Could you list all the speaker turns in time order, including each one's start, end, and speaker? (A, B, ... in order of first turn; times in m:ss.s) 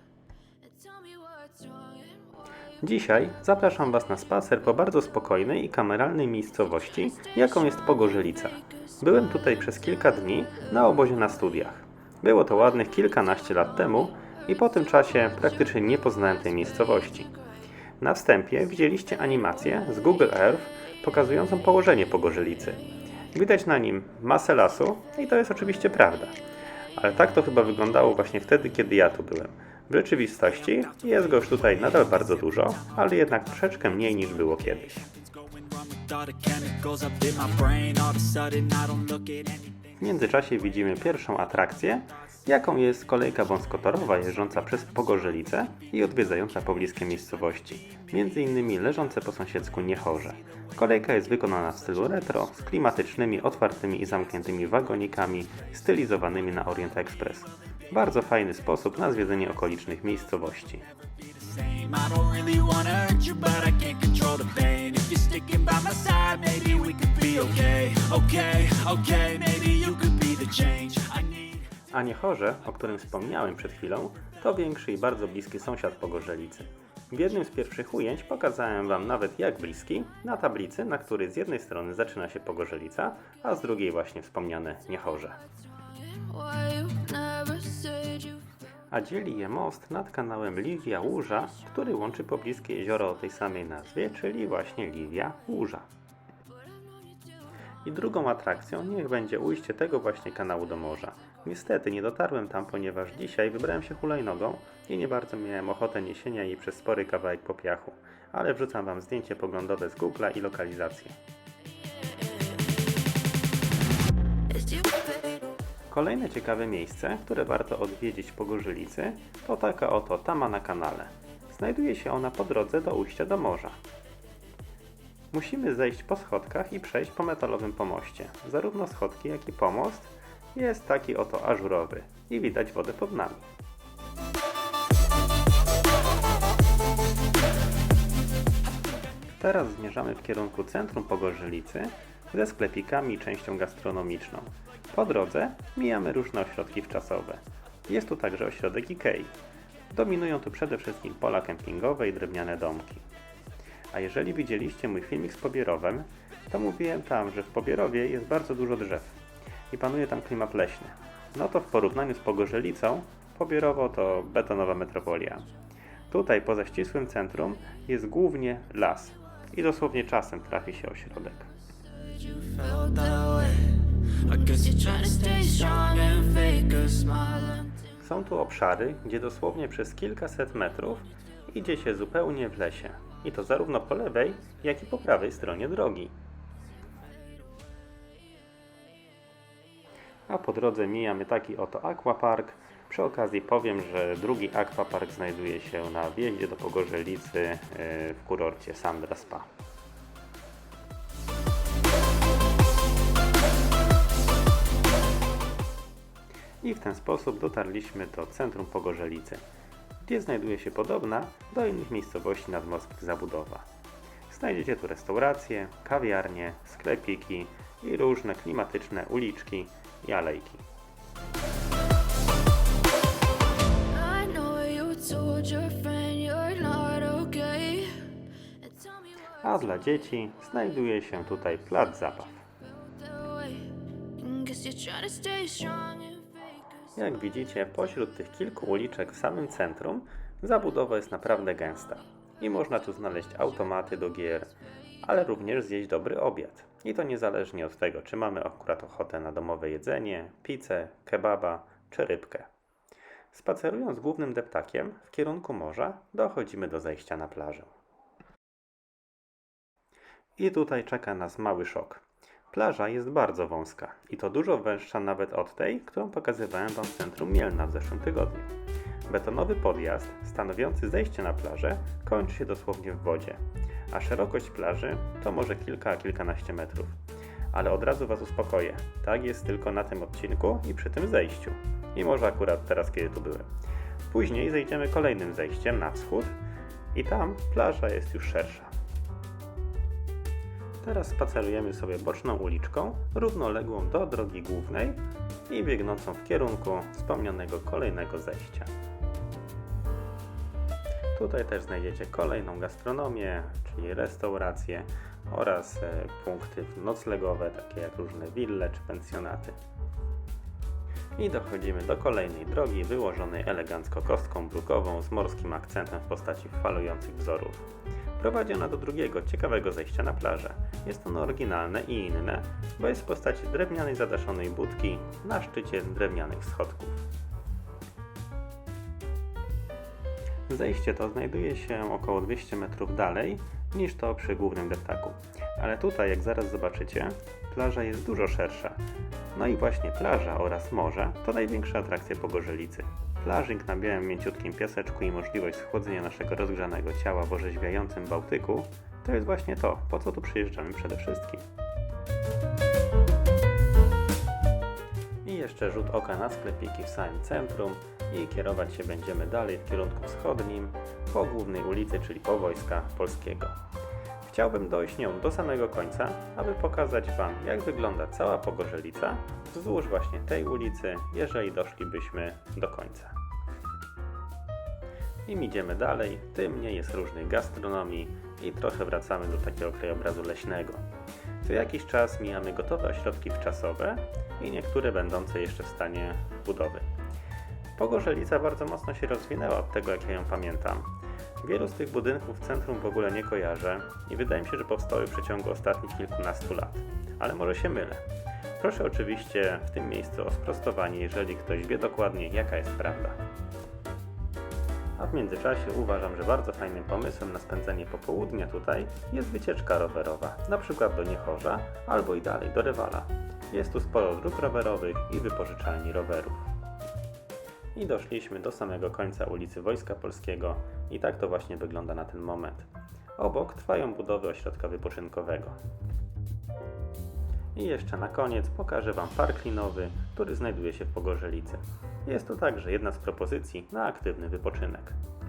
0:00.7-0:02.4 A
0:02.8-0:17.3 B
0:18.0-0:26.4 B
0:27.0-0:35.1 B
0:35.2-0:40.0 C
0:40.0-1:00.9 B
1:01.1-1:11.6 C
1:11.9-1:25.4 B
1:26.0-1:28.5 A
1:28.9-1:35.9 B
1:36.8-1:37.2 A
1:37.8-1:51.2 B
1:52.2-1:52.6 A
1:54.5-1:55.5 A
1:55.9-2:03.8 B
2:05.3-2:13.5 B
2:19.4-2:29.3 B
2:29.9-2:33.1 B
2:33.9-2:45.5 B
2:46.1-2:51.5 B
2:52.1-2:57.8 A
2:52.6-2:55.6 C
2:58.0-3:06.2 B
3:10.3-3:19.5 B
3:26.6-3:29.4 B
3:30.0-3:33.7 B
3:34.3-3:40.6 B
3:43.9-3:49.0 A
3:49.4-3:52.5 B
3:52.8-3:56.9 A
3:57.0-4:12.5 B
4:13.3-4:17.7 B
4:20.4-4:28.5 B
4:29.1-4:37.0 B
4:37.5-4:43.5 B
4:44.1-4:46.4 B
4:46.9-4:48.7 B
4:50.8-4:58.7 B
5:01.2-5:09.6 B
5:11.2-5:27.0 B
5:30.5-5:38.8 B
5:39.3-5:51.4 B
5:55.2-6:03.6 B
6:04.2-6:13.2 B
6:15.3-6:20.8 B
6:21.4-6:26.9 B
6:27.8-6:38.0 B
6:38.6-6:43.2 B
6:45.0-6:56.5 B
6:57.8-7:05.6 B
7:07.6-7:15.0 B